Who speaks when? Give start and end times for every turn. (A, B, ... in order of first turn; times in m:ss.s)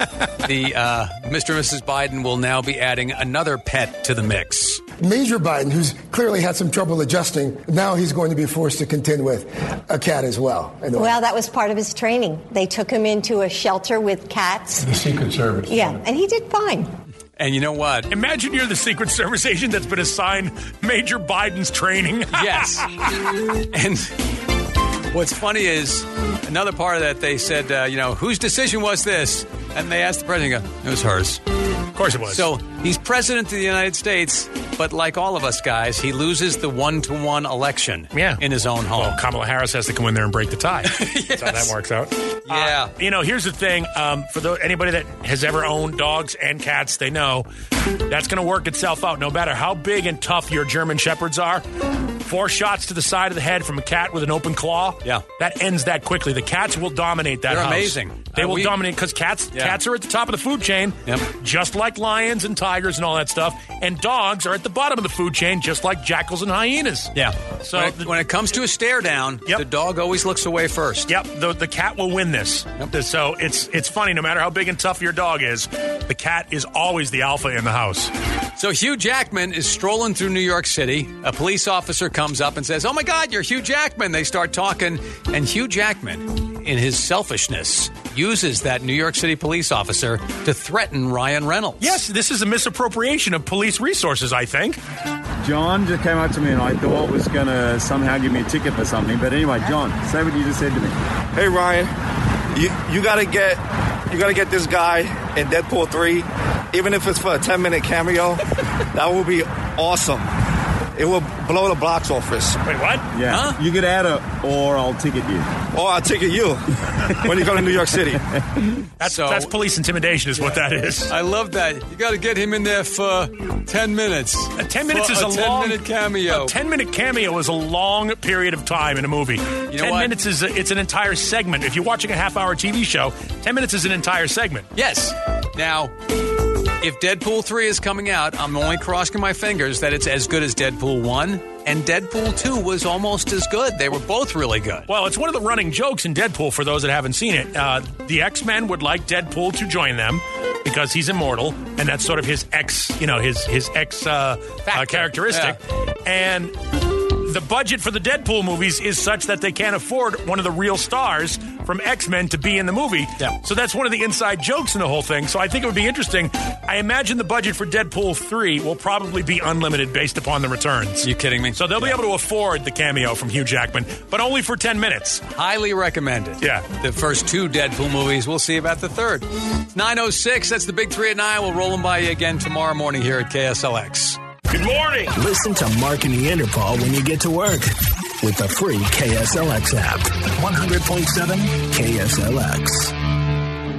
0:00.4-0:04.8 A
0:05.0-0:11.2 B
0:11.0-0:15.1 C
0:15.1-0:15.6 D
0:15.6-0:16.9 C
0:17.4-0:18.1 A
0:18.1-0:23.3 D
0:22.3-0:22.9 A
0:23.6-0:24.1 A
0:25.1-0:31.4 A
0:32.0-0:32.5 D
0:32.3-0:39.2 A
0:38.1-0:38.4 D
0:38.9-0:47.5 D
0:40.9-0:41.7 A
0:42.5-0:42.9 A
0:48.1-0:51.6 D
0:52.2-1:08.1 D
0:57.5-0:58.8 A
0:59.5-0:59.8 A
1:07.2-1:11.1 A
1:11.1-1:18.1 D
1:18.6-1:32.0 A
1:31.8-1:34.8 D
1:35.4-1:41.0 E
1:41.3-1:41.9 F
1:42.6-1:50.2 F
1:51.0-1:52.6 F
1:52.6-1:53.1 D
1:53.1-1:55.5 E
1:53.3-1:53.6 A
1:55.7-1:56.6 F
1:57.1-1:57.5 E
1:57.2-1:58.2 F
1:59.0-2:01.1 D
1:59.0-1:59.5 A
2:00.4-2:06.6 A
2:04.6-2:14.7 D
2:09.7-2:10.1 A
2:14.8-2:16.0 A
2:16.8-2:24.9 A
2:24.9-2:36.6 D
2:34.6-2:35.6 A
2:37.2-2:55.2 D
2:51.0-2:52.0 A
2:55.3-3:04.2 A
2:56.4-2:56.7 D
3:04.5-3:05.1 D
3:05.1-3:12.9 G